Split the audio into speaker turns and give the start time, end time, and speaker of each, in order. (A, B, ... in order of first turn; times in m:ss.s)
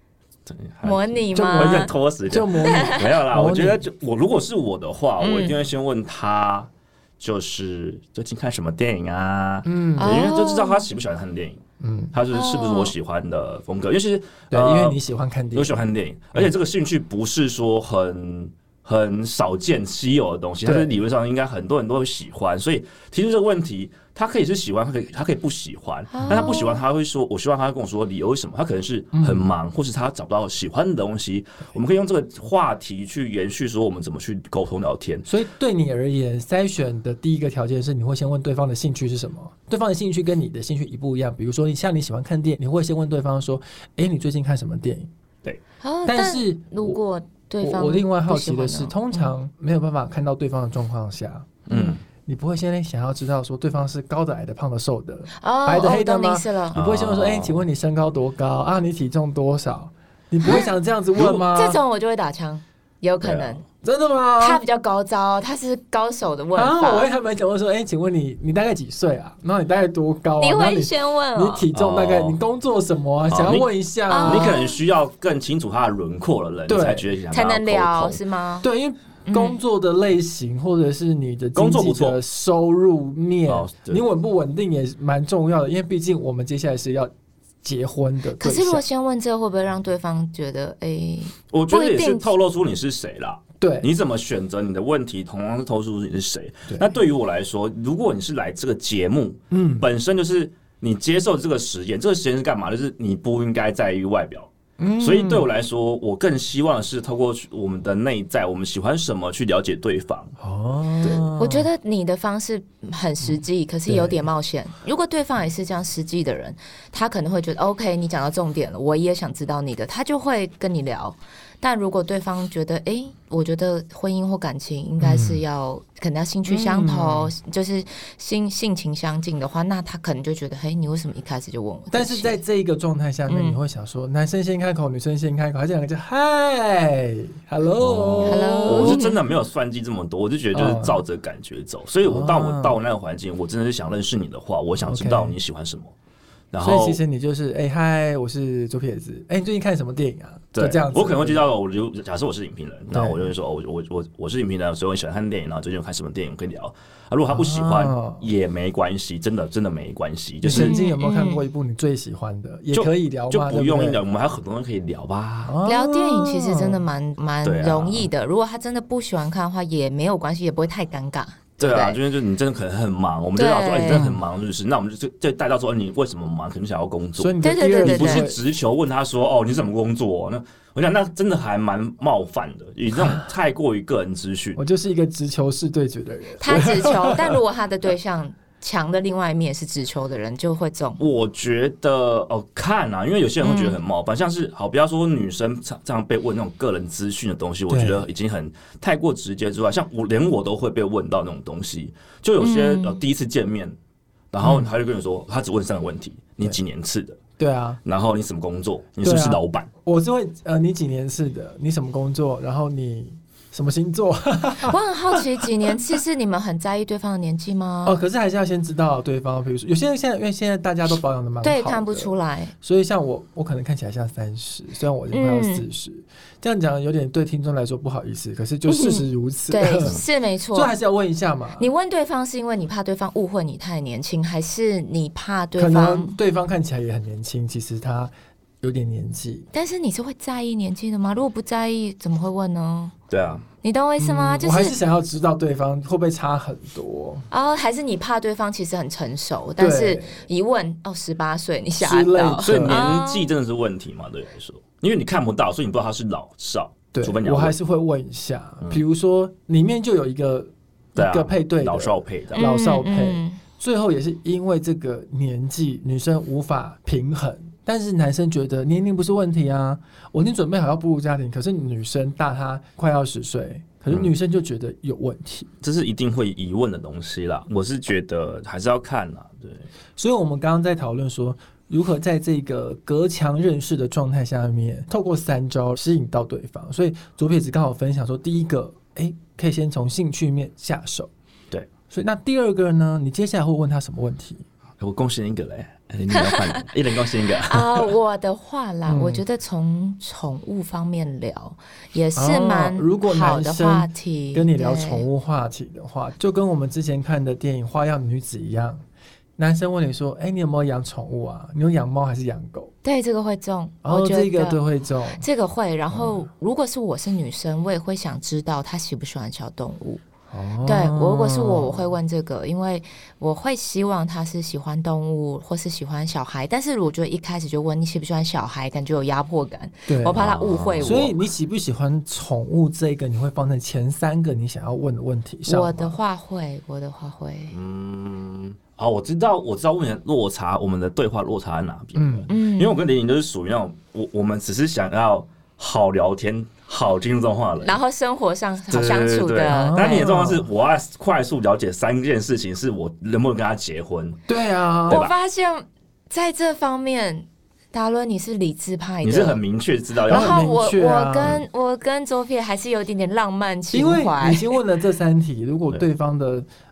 0:00.5-0:15.0 A
0:00.8-0:01.9 B
0:01.3-0:03.8 C
0:05.2-0:05.6 B
0:09.6-0:10.3 C
0:10.0-0:10.9 B
0:11.8-0:12.1 C
0:12.3-0:12.9 B
0:14.5-0:16.5 C
0:15.5-0:35.3 A
0:20.6-0:21.0 C
0:26.1-0:26.8 B
0:26.3-0:26.6 C
0:29.1-0:29.5 C
0:35.2-0:45.1 C
0:45.8-0:49.2 B
0:46.0-0:47.0 C
0:47.6-0:51.6 C
0:51.7-0:52.0 A
0:51.7-0:52.0 B
0:52.2-1:01.8 C
0:55.3-0:56.8 B
0:56.7-0:57.6 A
1:01.2-1:01.4 A
1:01.3-1:03.6 B
1:03.2-1:03.6 A
1:03.8-1:04.6 C
1:04.4-1:07.1 B
1:06.5-1:14.6 C
1:10.4-1:11.7 B
1:11.7-1:12.4 A
1:13.3-1:13.7 A
1:14.1-1:14.8 B
1:14.2-1:18.2 A
1:16.7-1:17.2 C
1:17.3-1:18.7 B
1:18.6-1:27.1 C
1:19.2-1:19.6 B
1:21.5-1:22.2 A
1:23.5-1:24.0 A
1:27.6-1:28.8 C
1:28.4-1:32.3 B
1:31.5-1:50.3 A
1:33.6-1:33.9 C
1:39.5-1:39.9 C
1:44.8-1:45.5 C
1:50.4-1:51.7 C
1:51.0-2:12.4 B
1:53.9-1:54.2 C
2:05.0-2:05.4 C
2:06.4-2:07.3 C
2:11.9-2:19.0 C
2:13.3-2:13.6 B
2:17.8-2:25.9 A
2:18.2-2:19.1 B
2:20.5-2:21.0 C
2:22.0-2:22.8 C
2:24.8-2:25.4 C
2:26.5-2:27.0 A
2:26.6-2:31.4 C
2:30.5-2:40.8 A
2:32.9-2:33.3 C
2:37.3-2:38.3 C
2:40.4-2:44.0 C
2:40.5-2:41.4 B
2:42.7-2:45.6 A
2:45.4-2:46.8 C
2:45.6-2:52.0 B
2:47.4-2:48.1 A
2:51.6-3:04.6 A
2:53.3-2:54.1 B
2:53.9-2:54.2 C
2:57.2-2:58.4 C
2:57.4-2:58.3 B
3:03.0-3:03.2 C
3:04.6-3:07.4 C
3:06.4-3:11.0 B
3:11.0-3:23.8 A
3:13.4-3:13.8 B
3:17.7-3:18.0 C
3:22.4-3:23.0 B
3:24.3-3:27.2 A
3:24.4-3:24.7 C
3:27.4-3:27.8 C
3:27.8-3:29.7 A
3:29.0-3:35.8 C
3:34.6-3:38.0 B
3:37.8-3:50.0 C
3:41.4-3:42.5 B
3:45.1-3:45.6 B
3:48.7-3:50.7 B
3:50.5-3:51.7 C
3:51.6-3:56.2 B
3:55.6-3:59.5 C
3:59.5-4:02.9 B
4:03.1-4:03.4 A
4:03.6-4:04.8 B
4:04.0-4:07.2 C
4:07.3-4:13.3 B
4:09.6-4:10.2 C
4:11.8-4:12.9 C
4:12.4-4:17.5 A
4:16.9-4:35.5 C
4:20.9-4:22.4 A
4:22.4-4:23.4 B
4:35.6-4:39.7 A
4:40.0-4:51.1 C
4:51.9-4:54.4 C
4:54.8-4:57.9 A
4:56.1-4:56.6 B
4:57.4-5:05.1 B
4:58.8-4:59.2 C
5:02.1-5:08.8 C
5:09.4-5:12.7 C
5:12.8-5:14.6 B
5:13.8-5:15.2 C
5:15.1-5:20.0 B
5:15.9-5:16.2 C
5:20.3-5:21.9 C
5:20.6-5:31.1 B
5:29.9-5:30.2 C
5:30.1-5:31.1 A
5:30.8-5:36.0 C
5:35.4-5:37.6 B
5:37.5-5:47.8 A
5:42.0-5:42.3 C
5:42.3-5:42.8 B
5:47.6-5:50.1 B
5:48.7-5:54.2 A
5:49.5-5:50.5 C
5:54.3-5:55.0 C
5:54.9-5:55.1 A
5:54.9-5:59.4 B
5:59.0-6:00.5 A
6:00.1-6:01.4 C
6:00.1-6:04.5 B
6:03.7-6:06.5 C